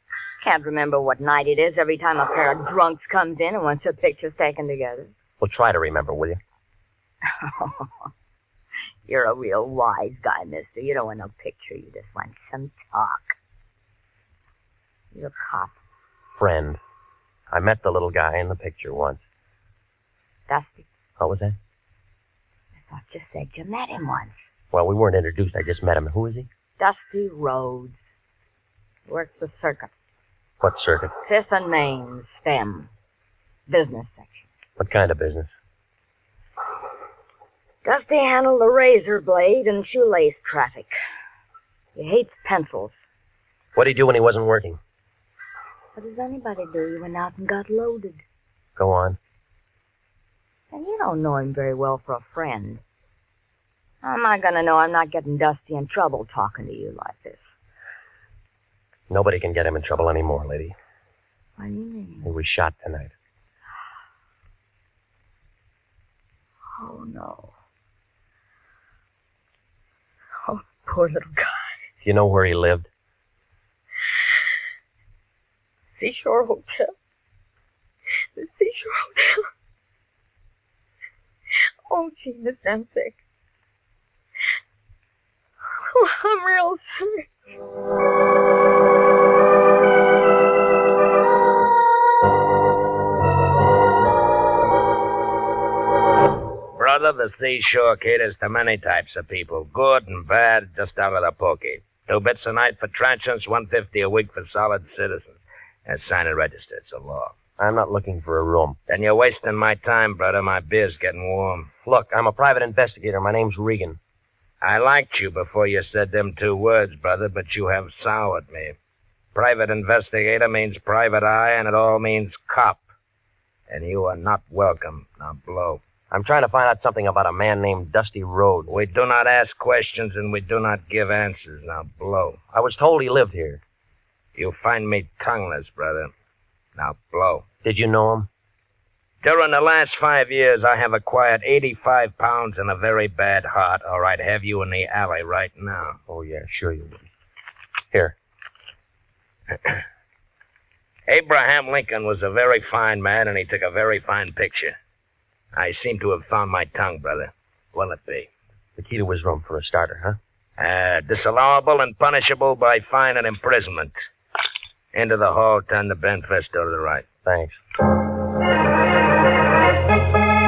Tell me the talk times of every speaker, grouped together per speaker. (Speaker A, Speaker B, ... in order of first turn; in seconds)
Speaker A: 0.4-5.1, 7.3-7.9, 9.1-13.4, 15.1-15.8, 20.5-20.9, 22.9-24.3, 26.8-28.0, 29.1-29.9, 31.2-32.9, 33.7-34.5, 37.8-40.9, 42.0-43.0, 46.0-48.2, 50.7-52.8, 54.0-57.5, 61.6-62.3, 66.8-67.5, 70.4-71.7, 76.0-76.9, 78.4-79.5, 81.9-83.2, 85.9-87.3
Speaker B: 5.4-6.4, 16.4-16.8, 17.5-19.2, 21.2-21.6, 24.7-26.5, 30.6-31.1, 34.8-35.5, 43.8-44.8, 48.8-49.2, 59.1-60.8, 62.2-63.1, 72.0-72.9, 107.6-108.8, 111.8-114.0, 126.1-128.7, 132.5-133.6, 137.6-138.3, 146.1-147.1, 158.8-160.2, 167.2-167.6
Speaker C: 96.7-107.3, 108.9-111.7, 114.6-118.8, 119.3-122.8, 123.7-125.8, 128.7-132.4, 134.4-136.1, 136.8-137.4, 139.2-146.0, 151.1-154.8, 155.5-158.3, 160.6-163.9, 164.9-167.1